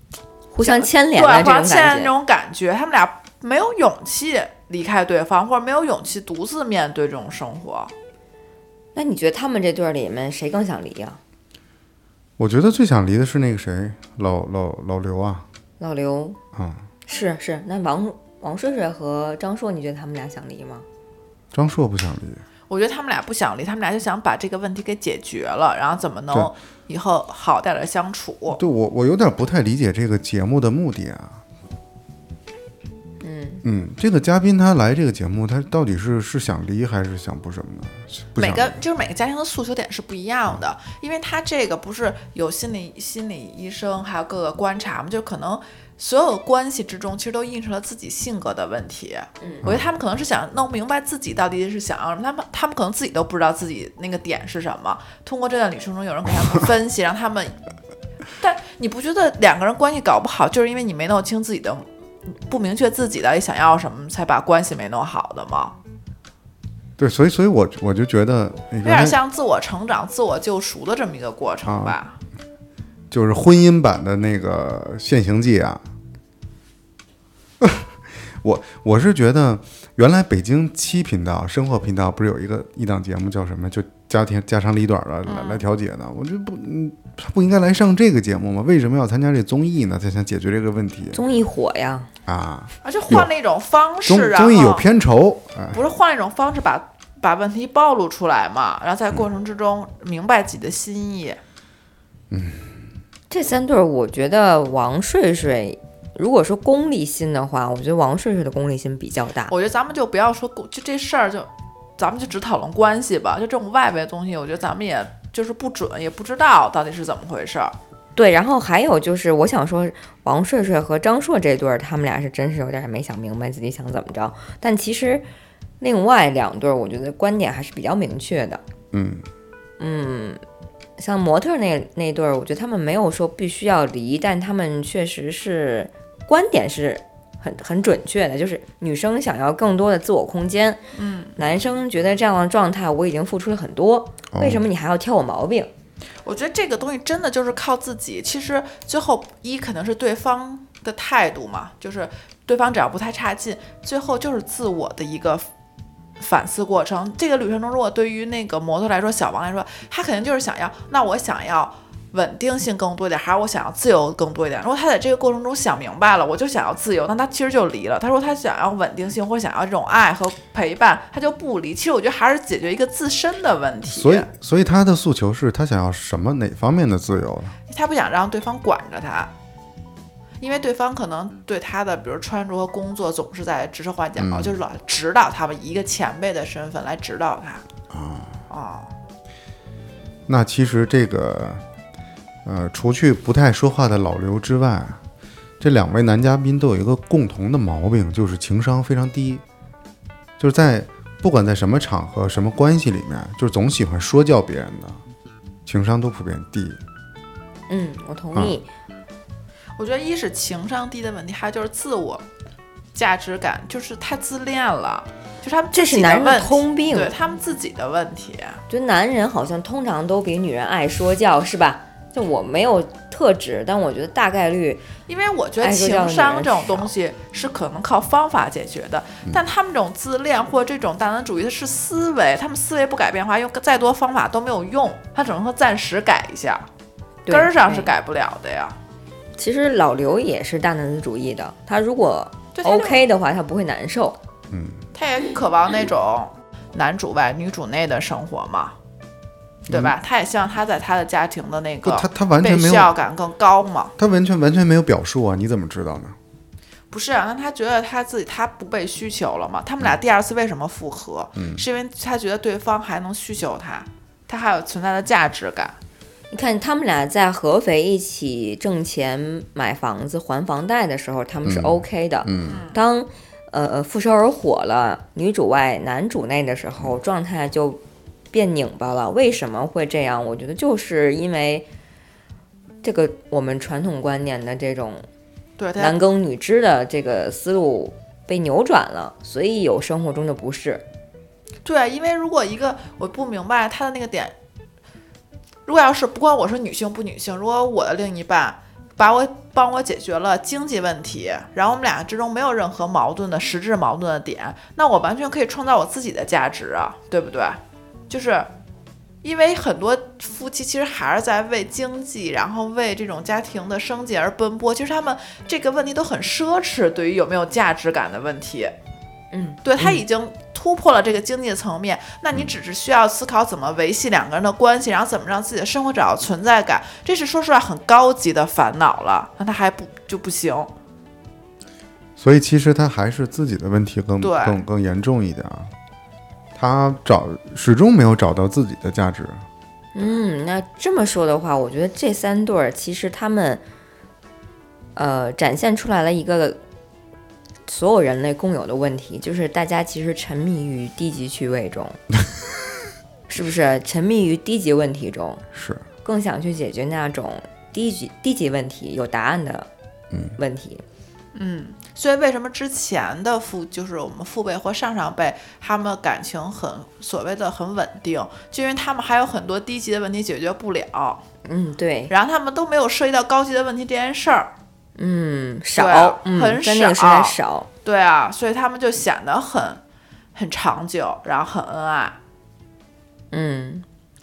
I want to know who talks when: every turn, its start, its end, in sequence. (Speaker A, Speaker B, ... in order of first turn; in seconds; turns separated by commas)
Speaker A: 0.5-2.1, Speaker B: 0.6-7.9, Speaker A: 8.9-11.2, Speaker C: 12.4-15.5, Speaker A: 15.8-16.4, Speaker C: 16.5-16.8, Speaker A: 17.1-20.9, Speaker C: 21.5-22.4, Speaker B: 22.7-28.6, Speaker C: 28.6-31.4, Speaker A: 33.2-33.6, Speaker C: 33.6-38.8, Speaker B: 38.4-57.6, Speaker B: 58.4-65.8, Speaker C: 67.0-69.2, Speaker B: 68.8-72.2, Speaker C: 71.7-72.0, Speaker C: 73.1-75.8, Speaker C: 77.6-91.2, Speaker B: 85.3-85.7, Speaker A: 91.1-92.1, Speaker C: 92.3-93.3, Speaker B: 92.8-94.9, Speaker C: 94.1-95.8, Speaker B: 95.7-101.4, Speaker C: 102.3-102.7, Speaker A: 103.3-109.5, Speaker B: 109.5-117.8, Speaker A: 118.2-125.3, Speaker A: 125.8-128.6, Speaker C: 128.9-129.2, Speaker A: 129.8-130.4, Speaker A: 131.0-140.8, Speaker B: 141.0-141.3, Speaker A: 141.4-145.7, Speaker C: 144.3-144.6, Speaker B: 146.2-155.5, Speaker B: 156.2-174.3, Speaker C: 173.9-177.6, Speaker B: 177.7-179.3, Speaker B: 180.4-187.6, Speaker C: 184.2-184.6, Speaker C: 187.9-188.4, Speaker B: 188.5-188.9, Speaker C: 190.3-191.6, Speaker C: 192.4-195.0, Speaker C: 195.6-199.4, Speaker C: 200.4-205.0, Speaker C: 205.7-206.8, Speaker A: 207.7-208.7, Speaker B: 209.8-212.2, Speaker B: 212.9-218.6, Speaker A: 215.7-217.1, Speaker A: 218.7-224.9, Speaker B: 225.1-236.7, Speaker A: 225.6-226.9, Speaker A: 237.3-237.9, Speaker B: 237.3-238.8, Speaker A: 239.4-244.2, Speaker B: 242.6-243.1, Speaker C: 244.5-244.8, Speaker B: 244.9-248.8, Speaker B: 249.7-253.9, Speaker C: 249.7-249.9, Speaker C: 251.8-252.9, Speaker C: 254.0-256.2, Speaker B: 256.9-265.8, Speaker C: 261.4-261.6, Speaker A: 266.3-277.8, Speaker C: 271.4-272.6, Speaker B: 272.5-272.8, Speaker A: 278.3-281.7, Speaker A: 282.8-285.1, Speaker B: 285.6-286.0, Speaker A: 285.8-290.8, Speaker B: 291.6-294.4, Speaker B: 295.7-308.5, Speaker B: 309.2-318.7, Speaker A: 319.3-320.0, Speaker B: 319.6-330.7, Speaker C: 332.2-335.7, Speaker B: 334.2-334.6, Speaker C: 336.6-339.4, Speaker A: 339.9-343.6, Speaker A: 345.0-346.6, Speaker A: 347.7-352.0, Speaker A: 353.3-355.4, Speaker C: 355.5-355.9, Speaker A: 356.0-359.7, Speaker C: 360.1-360.4, Speaker A: 360.4-360.8, Speaker B: 361.3-371.2, Speaker A: 371.4-372.1, Speaker B: 372.1-374.5, Speaker A: 375.0-377.7, Speaker B: 375.8-379.8, Speaker B: 380.4-382.2, Speaker A: 383.3-383.9